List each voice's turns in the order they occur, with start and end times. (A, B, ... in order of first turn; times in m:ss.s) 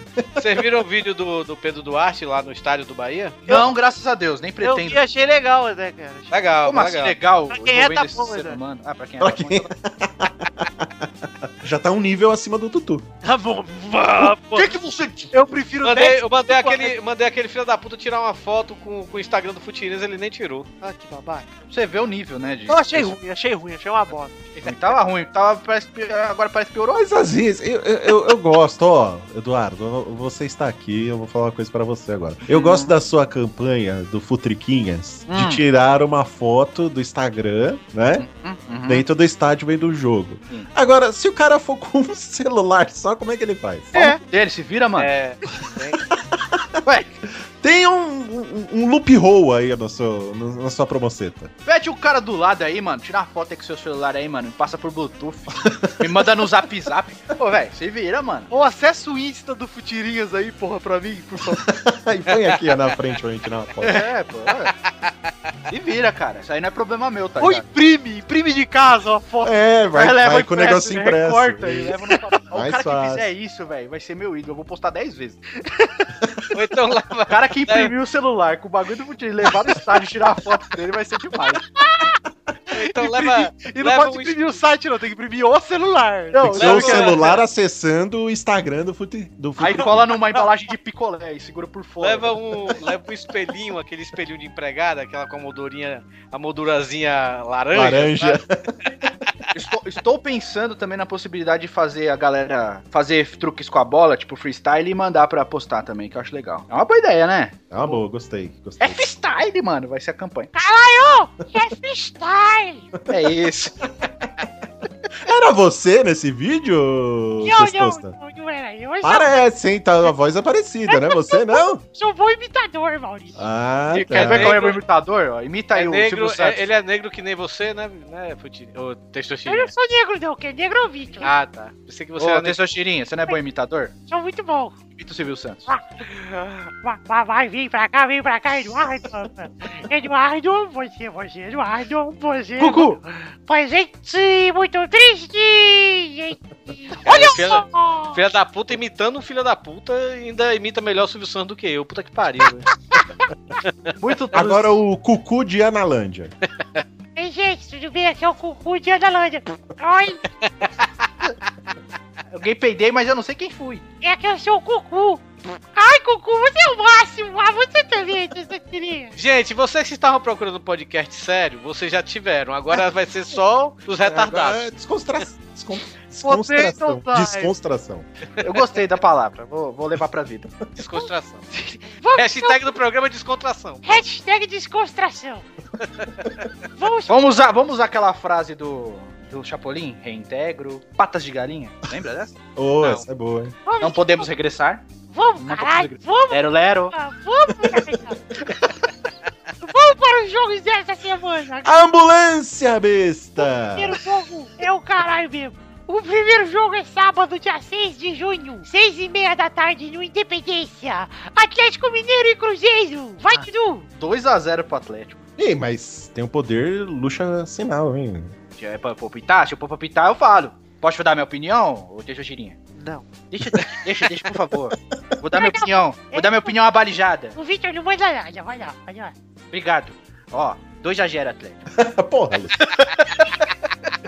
0:00.2-0:00.6 A
0:00.4-0:03.4 B
0:03.4-0:05.0 C
0:04.6-0:06.3 D
0:06.3-0:07.2 B
0:06.6-0:09.7 C
0:07.5-0:08.6 D
0:09.2-0:11.1 A
0:11.6-0:13.1 A
0:13.2-0:14.7 D
0:14.6-0:15.3 C
0:15.3-0:16.9 D
0:15.8-0:20.7 B
0:20.8-0:21.5 D
0:21.7-0:23.1 C
0:22.7-0:24.4 D
0:24.6-0:27.0 C
0:26.9-0:38.2 A
0:32.5-0:32.9 C
0:35.3-0:35.6 C
0:38.2-0:39.0 C
0:38.8-0:43.9 A
0:43.9-0:44.2 D
0:43.9-0:45.1 C
0:45.0-0:46.0 B
0:46.3-0:46.8 A
0:46.8-0:47.1 C
0:47.6-0:51.5 A
0:51.6-0:58.5 C
0:55.6-0:56.4 A
0:58.5-1:01.6 D
1:01.5-1:04.1 A
1:02.3-1:02.8 B
1:03.8-1:04.7 C
1:05.7-1:07.6 C
1:07.4-1:09.5 D
1:09.4-1:12.0 A
1:09.9-1:15.4 C
1:12.5-1:13.3 A
1:15.6-1:16.1 D
1:16.5-1:17.9 B
1:17.3-1:21.6 C
1:22.7-1:26.5 D
1:22.7-1:24.6 B
1:26.3-1:27.4 C
1:26.4-1:30.2 A
1:26.6-1:27.3 B
1:29.6-1:32.7 C
1:32.0-1:38.4 B
1:37.7-1:38.9 A
1:39.5-1:48.0 C
1:47.7-1:49.1 A
1:48.8-1:50.5 C
1:50.5-1:52.9 E
1:53.0-1:53.3 A
1:53.1-1:53.7 C
1:55.2-1:58.1 A
1:57.4-1:59.4 E
1:59.0-2:01.8 A
2:00.9-2:03.4 E
2:03.4-2:04.6 A
2:03.9-2:06.6 C
2:04.1-2:04.8 B
2:05.7-2:09.7 B
2:09.5-2:11.3 E
2:11.2-2:12.6 B
2:12.2-2:13.9 C
2:14.1-2:14.8 E
2:14.9-2:15.7 C
2:16.8-2:28.2 E
2:22.6-2:23.0 C
2:27.0-2:32.7 B
2:34.0-2:34.8 C
2:34.3-2:36.3 A
2:37.2-2:40.2 E
2:40.6-2:40.8 B
2:42.3-2:43.8 C
2:44.0-2:49.1 E
2:49.2-2:54.7 B
2:54.0-2:58.0 A
2:56.2-2:57.5 D
2:58.4-3:00.5 C
3:00.8-3:01.4 B
3:02.0-3:02.7 E
3:02.1-3:04.0 B
3:03.8-3:05.4 E
3:05.8-3:06.4 B
3:06.8-3:07.2 E
3:07.1-3:12.4 C
3:12.6-3:13.6 A
3:13.6-3:14.3 E
3:13.8-3:14.8 C
3:15.1-3:18.2 E
3:15.4-3:16.9 C
3:19.6-3:21.8 E
3:21.6-3:24.0 A
3:23.4-3:33.9 E
3:34.0-3:35.2 C
3:35.4-3:38.3 A
3:38.6-3:42.6 C
3:42.8-3:43.0 D
3:43.3-3:47.4 C
3:45.3-3:46.6 E
3:47.4-3:49.1 E
3:49.5-3:51.6 C
3:51.7-3:52.7 A
3:52.7-3:53.0 C